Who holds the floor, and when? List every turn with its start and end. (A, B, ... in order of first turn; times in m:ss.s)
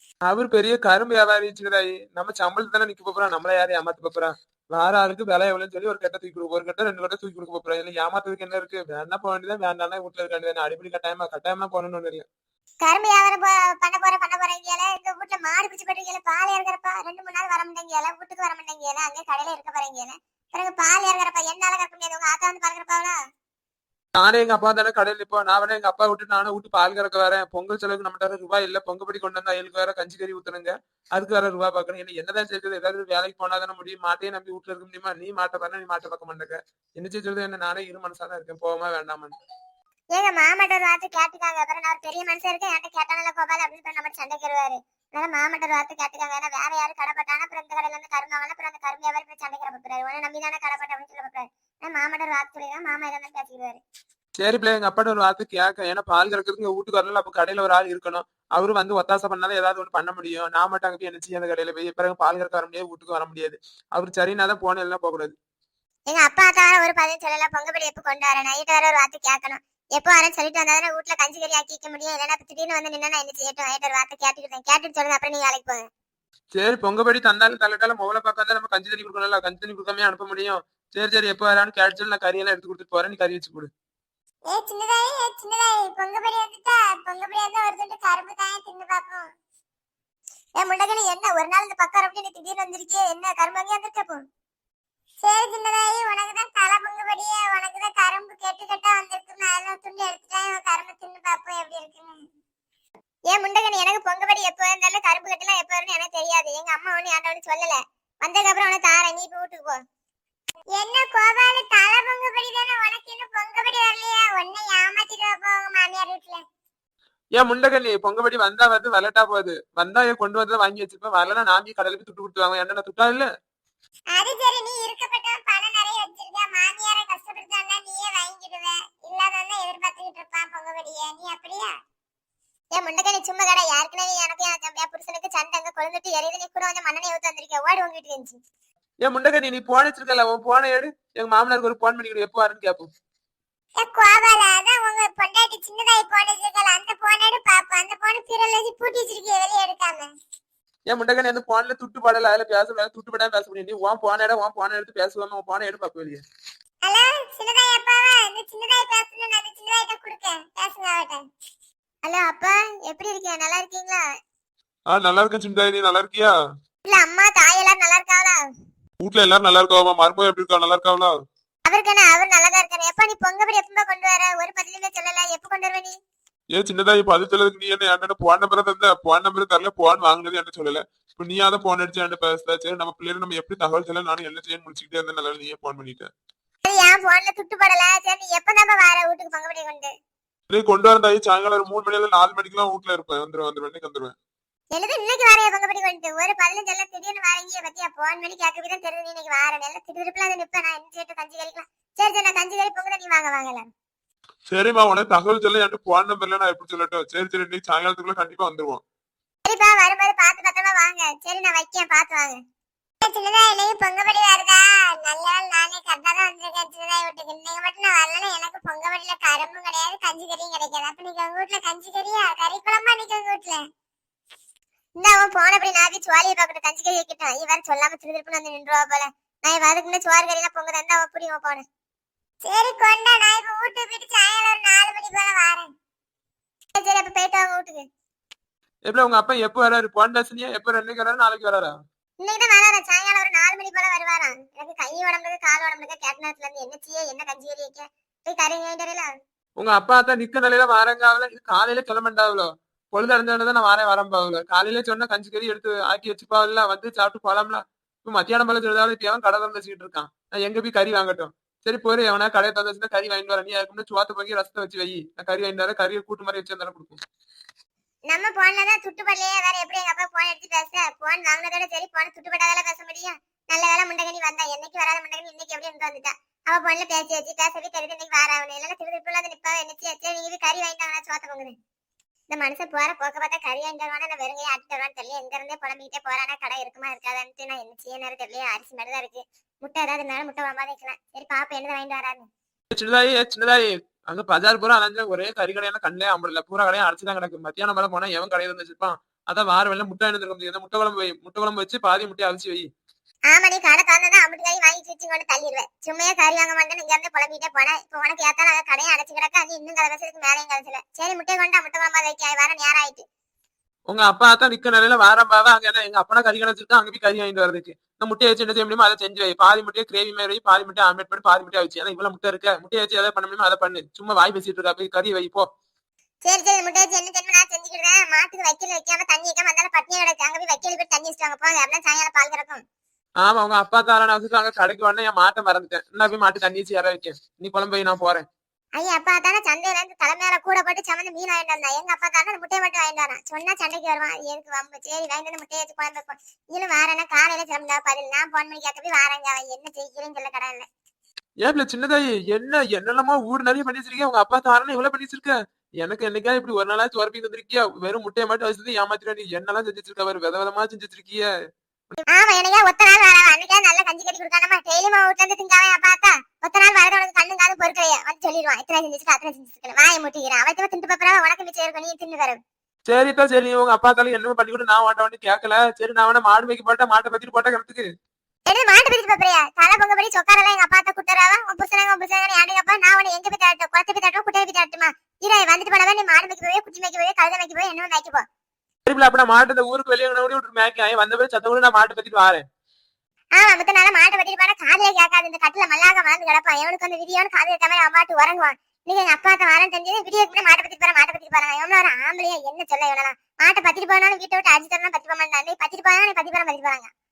0:00.3-0:12.2 A
0:12.8-0:23.2 B
0:24.2-0:39.3 A
0:40.2-0:53.8 B
0:54.4-1:05.3 A
1:06.1-1:15.9 B
1:16.6-1:23.7 A
1:24.5-1:29.3 B
1:30.6-1:34.2 B
1:35.2-1:42.2 B
1:43.3-1:49.8 B
1:50.7-1:56.4 B
1:57.4-2:03.3 A
2:04.1-2:11.8 B
2:12.8-2:18.4 B
2:19.0-2:22.9 A
2:23.8-2:30.1 B
2:30.9-2:36.2 A
2:36.8-2:41.2 B
2:42.0-2:44.0 B
2:44.9-2:46.3 A
2:46.9-2:48.4 B
2:49.0-2:51.1 A
2:51.7-2:56.0 B
2:56.5-3:06.1 A
3:06.7-3:09.9 B
3:10.5-3:14.2 A
3:14.7-3:23.7 B
3:24.5-3:28.8 A
3:29.5-3:32.4 B
3:33.0-3:43.6 B
3:45.0-3:51.6 B
3:52.4-3:55.7 B
3:56.8-3:57.8 B
3:58.9-4:01.7 A
4:02.2-4:09.1 B
4:09.6-4:27.0 A
4:28.1-4:41.6 B
4:42.3-4:52.3 B
4:52.7-5:02.7 A
5:03.3-5:13.0 B
5:13.9-5:25.4 A
5:26.2-5:32.6 B
5:33.2-5:38.2 A
5:38.8-5:50.7 B
5:51.4-6:01.3 A
6:02.1-6:12.4 B
6:12.9-6:17.9 A
6:18.5-6:28.2 B
6:28.9-6:32.4 A
6:33.4-6:46.9 B